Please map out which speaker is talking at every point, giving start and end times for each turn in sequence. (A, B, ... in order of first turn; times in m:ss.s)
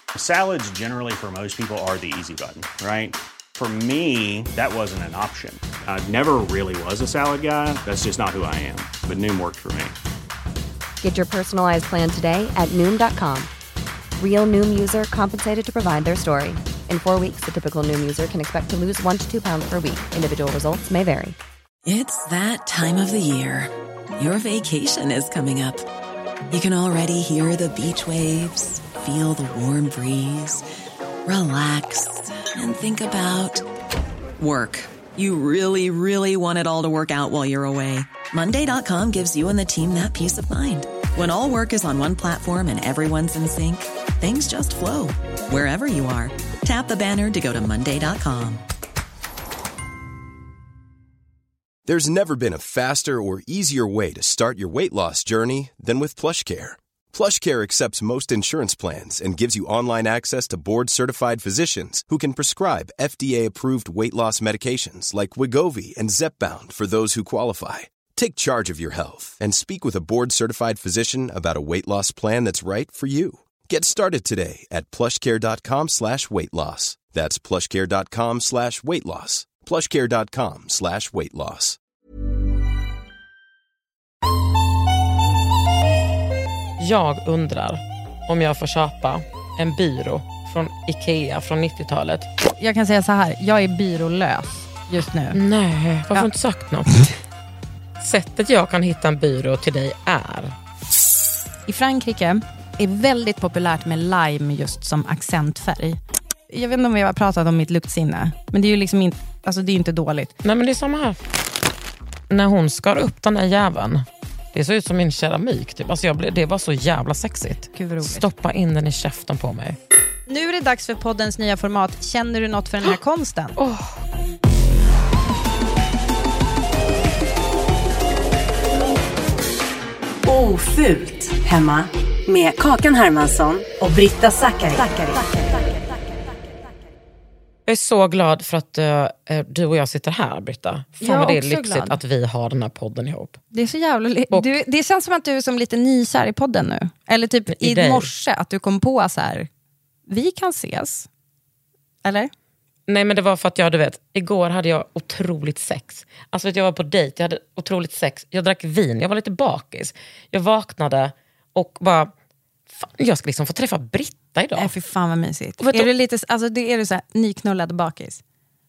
0:00.2-0:09.9 A
0:11.0-0:13.5 B
0:14.2-0:21.4 B
0:21.8-0:25.9 C
0:26.5-0:30.6 C
0:31.3-0:33.6 C
0:34.4-0:48.6 C
0:51.9-1:21.8 D
1:26.8-1:32.3 E
1:32.6-1:35.4 F
1:35.3-1:37.0 E
1:38.0-1:40.6 E
1:41.7-1:46.0 F
1:46.5-1:50.3 F
1:50.4-1:51.2 E
1:52.3-1:59.8 E
1:57.7-1:58.3 F
2:00.3-2:03.6 F
2:03.6-2:04.0 E
2:10.3-2:15.6 G
2:17.7-2:23.4 E
2:21.0-2:22.0 F
2:23.5-2:29.5 F
2:27.5-2:28.1 E
2:30.1-2:31.1 F
2:32.0-2:32.3 F
2:32.9-2:42.1 E
2:42.7-2:44.7 E
2:44.6-2:48.2 F
2:45.6-2:45.9 E